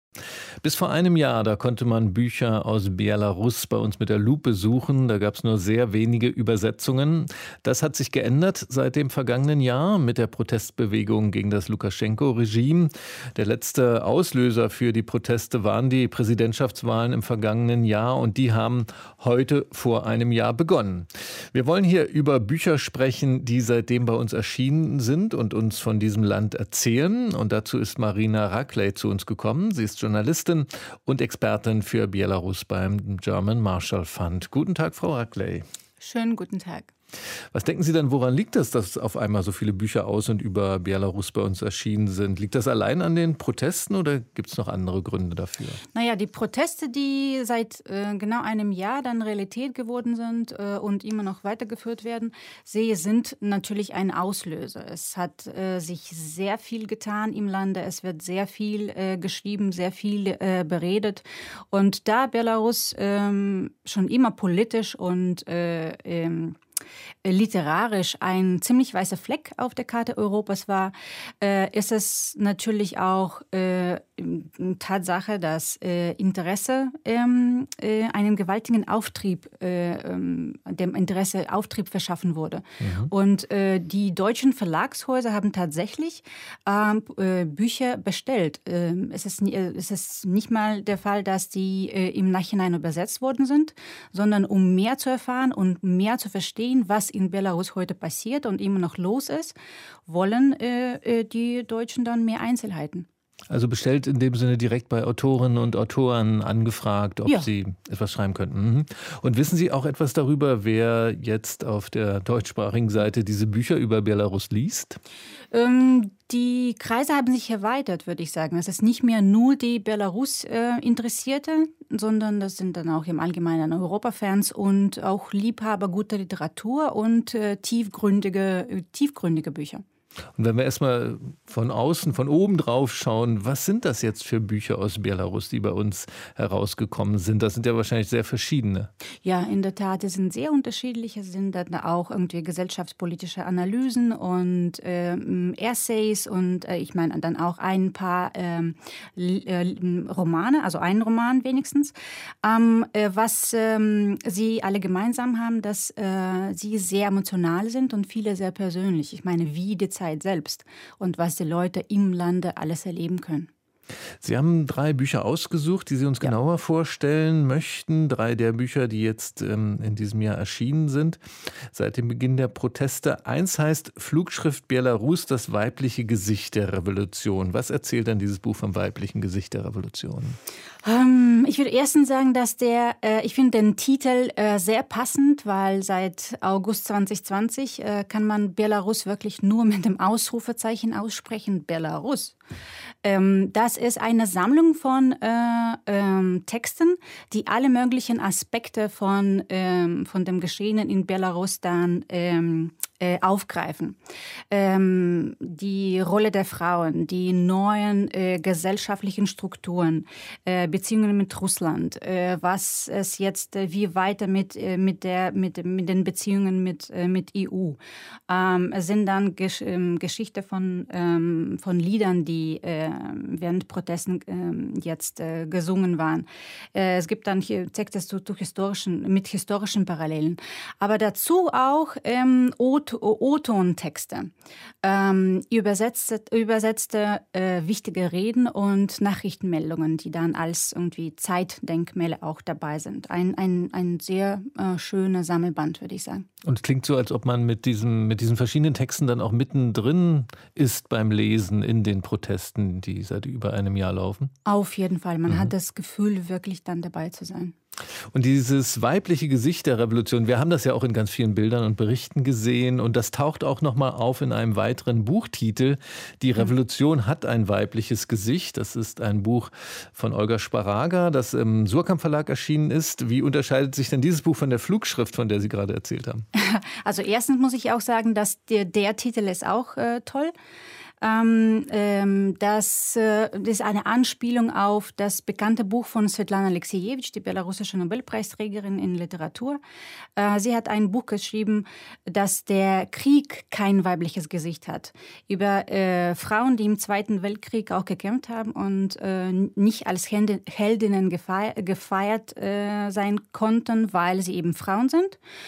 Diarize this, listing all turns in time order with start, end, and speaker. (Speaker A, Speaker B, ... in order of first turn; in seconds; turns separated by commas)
Speaker A: 0.6-35.6, Speaker B: 36.0-36.9, Speaker A: 37.5-45.8, Speaker B: 45.9-66.6, Speaker B: 67.2-99.5, Speaker A: 82.8-83.1, Speaker B: 100.0-103.0, Speaker A: 103.5-115.0, Speaker B: 115.5-129.8, Speaker A: 130.4-138.9, Speaker B: 139.2-163.5, Speaker A: 164.2-171.2, Speaker A: 171.7-180.4, Speaker B: 180.8-192.4, Speaker B: 193.0-204.0, Speaker B: 204.5-217.8, Speaker B: 218.3-234.3, Speaker B: 234.8-246.3, Speaker A: 246.4-254.3, Speaker B: 254.4-257.5, Speaker A: 258.1-276.2, Speaker B: 276.3-280.3, Speaker B: 281.0-289.6, Speaker B: 290.1-305.2